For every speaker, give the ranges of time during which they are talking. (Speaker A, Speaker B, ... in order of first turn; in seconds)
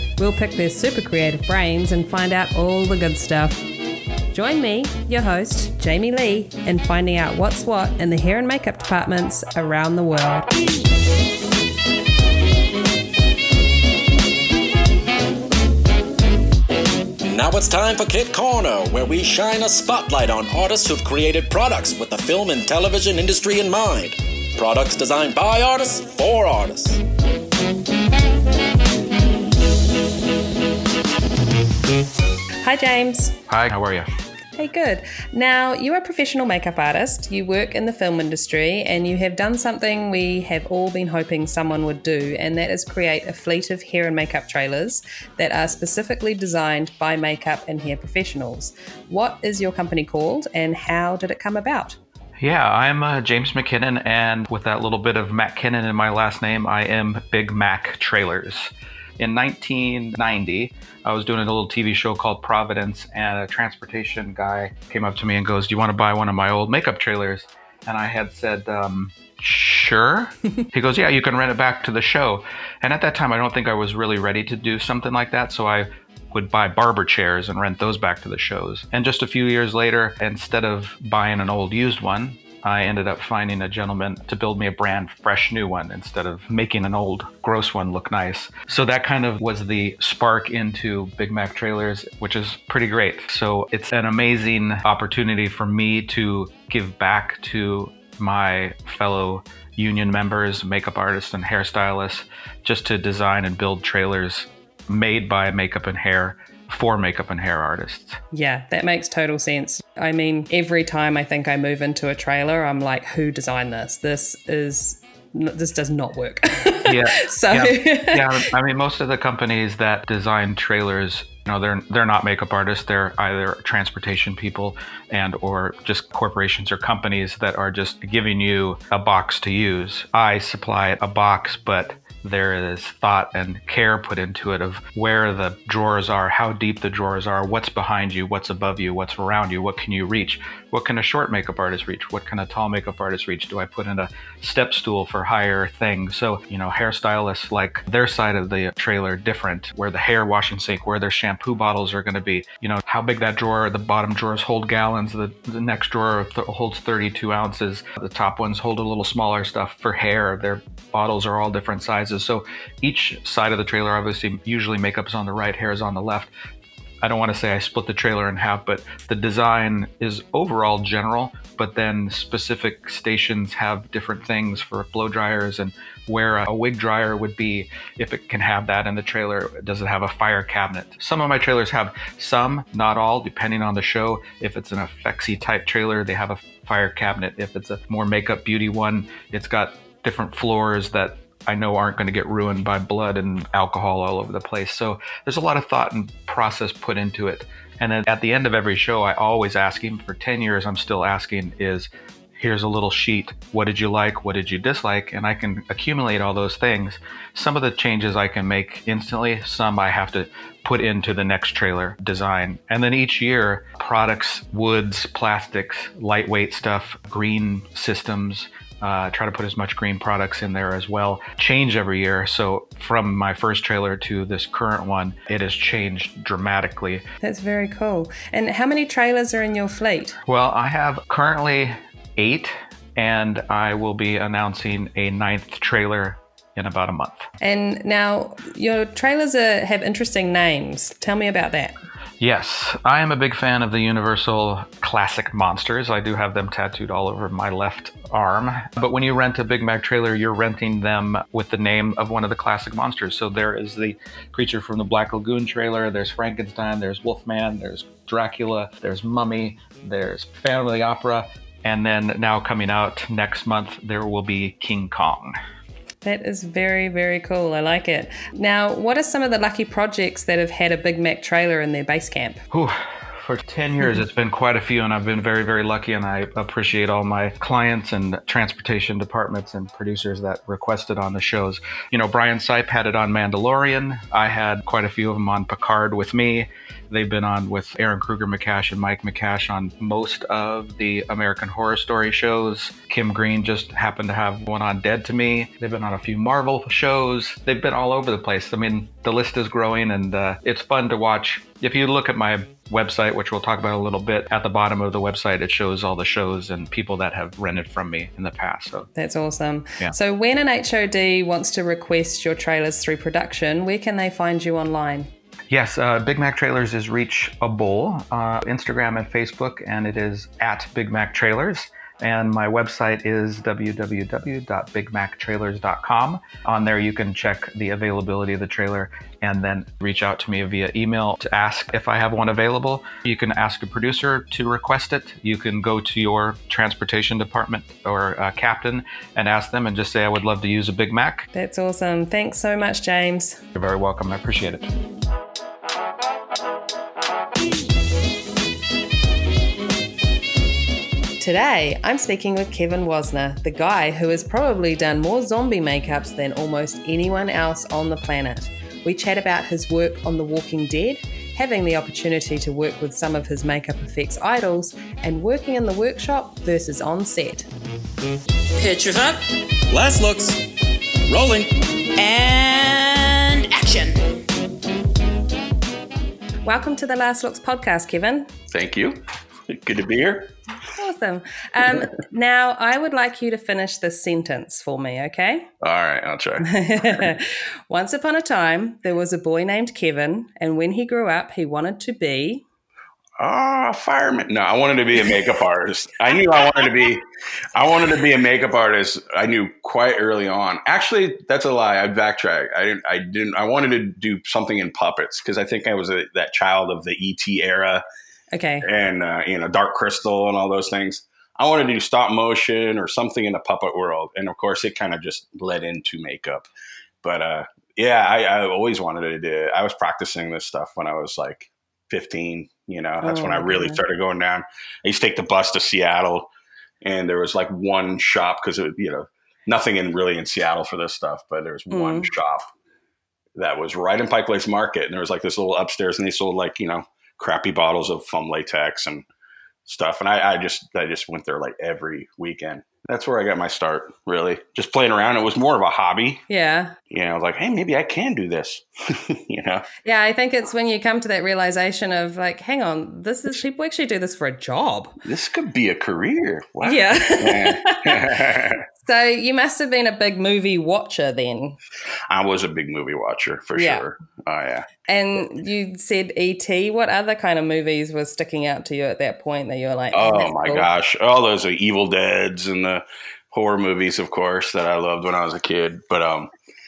Speaker A: 0.2-3.6, 4.3-10.4, 32.6-33.3, 34.5-52.0, 108.3-118.5, 227.2-230.2, 237.4-241.7, 266.0-272.4, 308.9-315.1, 341.3-343.4, 351.2-367.5, 376.4-378.3, 380.7-385.5, 386.4-392.4, 408.3-408.7, 423.0-423.8, 431.7-432.1, 446.3-446.8, 449.8-455.0, 456.6-458.2, 458.8-461.6, 463.5-463.9, 464.9-470.7
Speaker B: 17.2-27.0, 368.6-370.4, 371.1-374.0
Speaker C: 33.5-34.1, 52.4-108.2, 116.8-166.3, 167.0-227.0, 230.2-237.3, 242.2-265.4, 272.5-308.9, 315.5-341.3, 343.5-344.7
Speaker D: 378.5-380.3, 385.6-387.1, 393.2-397.0, 397.5-407.8, 408.6-416.5, 417.0-426.3, 426.8-432.4, 433.4-439.1, 439.6-446.2, 446.9-449.6, 455.0-458.6, 462.1-464.7, 469.9-476.3